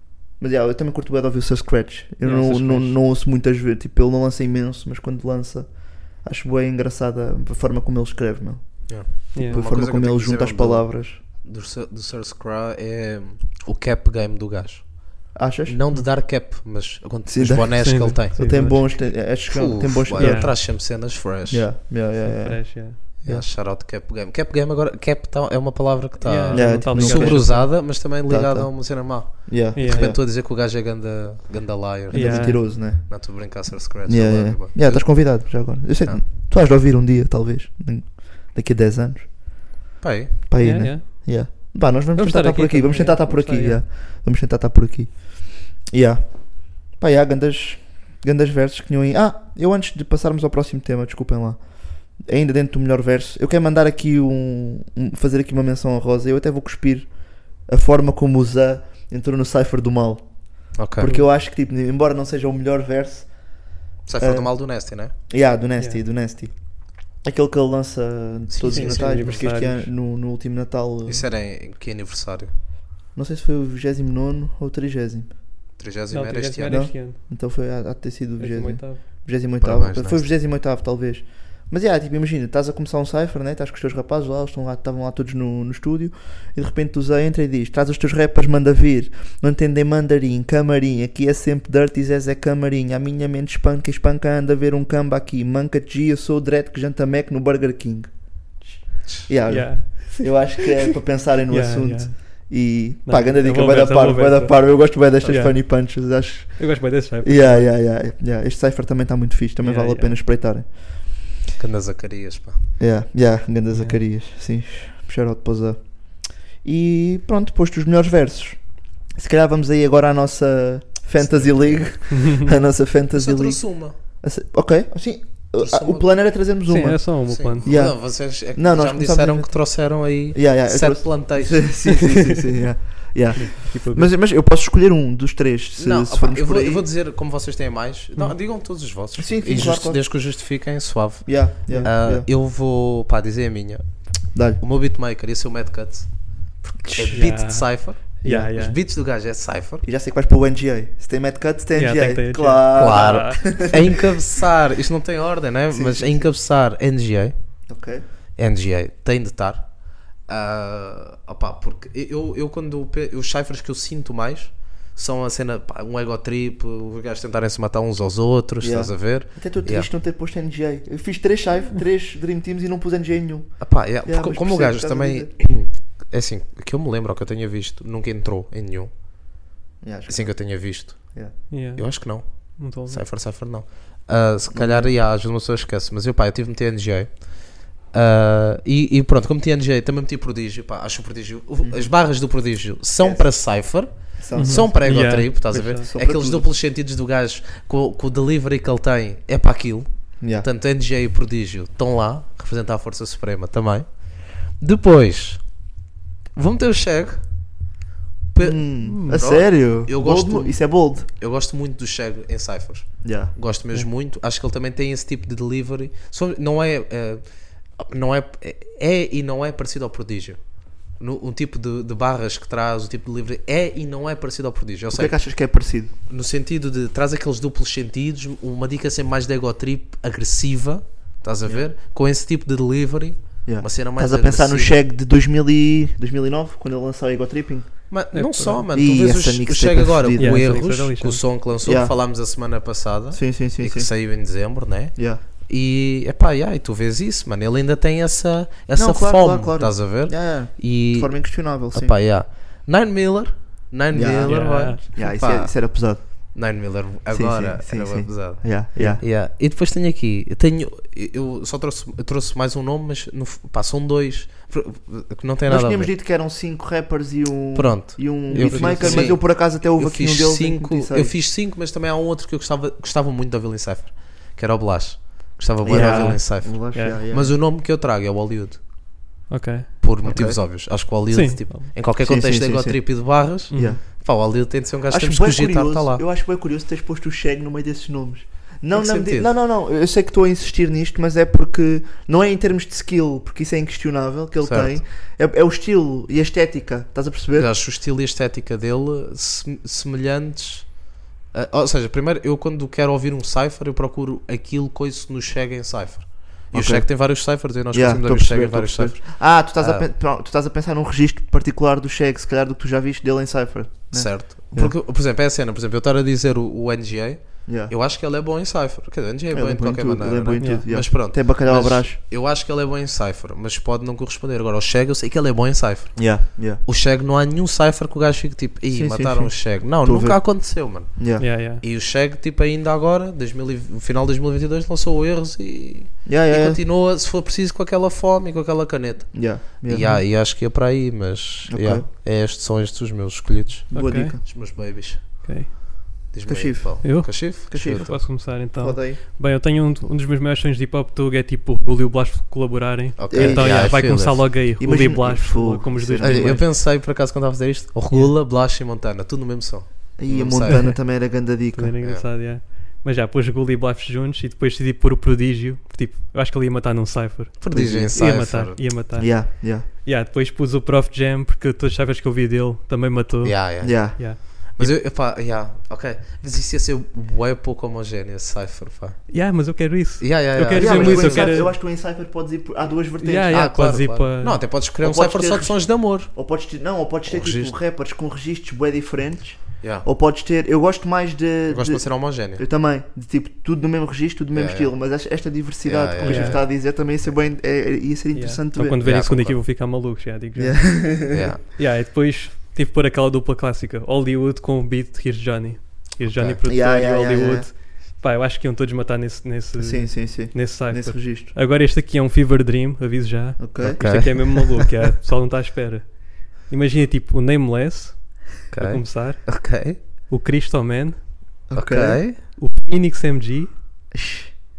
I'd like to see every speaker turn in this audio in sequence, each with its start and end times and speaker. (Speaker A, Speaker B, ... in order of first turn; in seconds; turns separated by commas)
Speaker A: 0.4-11.2, Speaker B: 2.2-3.0, Speaker C: 8.9-21.8, Speaker B: 9.3-9.6, Speaker A: 15.3-15.8, Speaker A: 17.3-20.8, Speaker B: 17.8-18.8, Speaker B: 20.2-20.5, Speaker A: 21.5-23.5, Speaker B: 22.2-23.0, Speaker C: 23.2-36.2, Speaker B: 26.2-27.7, Speaker A: 26.5-30.2, Speaker B: 29.8-30.1, Speaker A: 32.1-33.5, Speaker B: 32.1-32.6, Speaker A: 34.0-39.5, Speaker C: 40.0-40.4, Speaker A: 40.5-63.4, Speaker B: 40.6-41.6, Speaker B: 42.2-43.8, Speaker C: 60.8-61.1, Speaker B: 61.0-61.3, Speaker C: 64.1-65.1, Speaker A: 64.2-64.5, Speaker A: 65.3-66.5, Speaker A: 67.2-71.2, Speaker C: 68.5-69.4, Speaker B: 68.7-69.9, Speaker C: 71.1-72.5, Speaker A: 73.2-75.3, Speaker C: 75.8-76.9, Speaker B: 76.1-77.2, Speaker A: 76.7-98.1, Speaker B: 78.4-79.0, Speaker C: 79.6-80.3, Speaker A: 99.3-110.7, Speaker B: 99.5-100.9, Speaker B: 101.5-102.5, Speaker B: 103.1-106.0, Speaker B: 106.6-107.7, Speaker B: 109.6-110.2, Speaker C: 111.6-112.7, Speaker A: 112.8-118.6, Speaker B: 113.7-114.0, Speaker A: 119.2-136.8, Speaker C: 121.2-121.8, Speaker B: 122.1-122.5, Speaker C: 123.1-124.0, Speaker C: 125.6-126.2, Speaker B: 126.7-127.7, Speaker C: 127.3-132.1, Speaker B: 133.3-134.1, Speaker C: 135.8-144.1, Speaker A: 139.2-140.0, Speaker A: 141.2-142.3, Speaker B: 141.7-141.9, Speaker A: 144.3-144.6, Speaker C: 144.6-149.8, Speaker A: 146.8-147.3, Speaker B: 147.1-148.8, Speaker A: 148.2-148.5, Speaker A: 149.8-154.0, Speaker B: 151.7-153.4, Speaker C: 152.8-157.3, Speaker A: 155.7-156.3, Speaker A: 157.7-158.1, Speaker C: 158.4-169.9, Speaker A: 168.6-175.3, Speaker C: 173.6-178.9, Speaker A: 179.8-181.4, Speaker C: 180.1-205.4, Speaker B: 181.5-183.0, Speaker A: 184.5-184.9, Speaker A: 191.6-191.9, Speaker A: 193.0-193.3, Speaker A: 194.2-196.5, Speaker B: 194.3-195.9, Speaker A: 200.2-200.5, Speaker C: 206.4-207.2, Speaker C: 208.3-217.2, Speaker A: 208.4-211.1, Speaker B: 208.8-209.2, Speaker A: 213.0-213.3, Speaker C: 217.8-220.4, Speaker C: 221.0-225.3, Speaker A: 224.9-225.9, Speaker C: 226.1-234.8, Speaker A: 233.4-237.9, Speaker C: 237.9-255.8, Speaker B: 238.1-238.6, Speaker A: 238.7-240.6, Speaker B: 240.2-241.2, Speaker A: 241.6-241.9, Speaker A: 243.1-243.9, Speaker A: 245.0-245.2, Speaker A: 248.8-252.0, Speaker A: 253.9-256.4, Speaker B: 254.0-254.8, Speaker C: 256.3-265.9, Speaker A: 257.1-259.0, Speaker B: 258.8-259.0, Speaker A: 265.5-271.1, Speaker C: 267.5-278.6, Speaker B: 268.3-269.1, Speaker A: 275.6-277.3, Speaker B: 275.7-277.0, Speaker B: 279.3-279.7, Speaker C: 279.8-286.0, Speaker A: 280.0-280.4, Speaker B: 281.1-281.7, Speaker A: 282.0-283.8, Speaker B: 283.5-283.8, Speaker A: 284.9-297.5, Speaker C: 288.7-289.3, Speaker C: 294.4-294.8, Speaker C: 297.4-309.9, Speaker A: 306.5-314.8, Speaker C: 313.9-345.3, Speaker A: 317.5-317.7, Speaker A: 319.3-322.0, Speaker B: 320.4-320.6, Speaker A: 326.0-326.6, Speaker A: 328.7-331.3, Speaker B: 331.2-331.6, Speaker A: 336.1-336.6, Speaker A: 339.1-340.0, Speaker A: 341.5-341.9, Speaker A: 343.7-344.2, Speaker B: 343.8-344.4, Speaker B: 345.2-345.5, Speaker C: 346.1-348.0, Speaker A: 346.2-349.0, Speaker B: 346.8-356.5, Speaker C: 353.0-354.4, Speaker A: 353.1-353.9, Speaker A: 354.6-356.5, Speaker C: 356.0-360.8, Speaker A: 360.0-361.8, Speaker B: 360.5-360.8, Speaker B: 361.5-374.7, Speaker C: 367.4-368.7, Speaker A: 367.5-368.0, Speaker A: 368.9-369.7, Speaker C: 373.2-379.1, Speaker A: 373.6-374.2, Speaker B: 379.1-381.5, Speaker C: 380.0-381.5, Speaker A: 380.5-383.4, Speaker B: 383.0-384.4, Speaker C: 383.3-386.1, Speaker A: 384.8-398.8, Speaker C: 387.1-387.5, Speaker C: 389.6-389.9, Speaker C: 391.5-392.4, Speaker C: 394.4-394.7, Speaker C: 395.6-396.5, Speaker B: 396.0-396.4, Speaker B: 398.1-401.0, Speaker C: 398.8-399.4, Speaker A: 400.4-401.3, Speaker C: 401.1-401.4, Speaker B: 401.6-421.0, Speaker C: 406.1-406.4, Speaker A: 406.4-407.5, Speaker A: 409.6-411.3, Speaker A: 413.4-413.8, Speaker C: 413.6-414.7, Speaker C: 418.5-419.8, Speaker A: 421.5-422.0, Speaker C: 421.5-422.2, Speaker B: 422.4-423.5, Speaker A: 423.9-424.3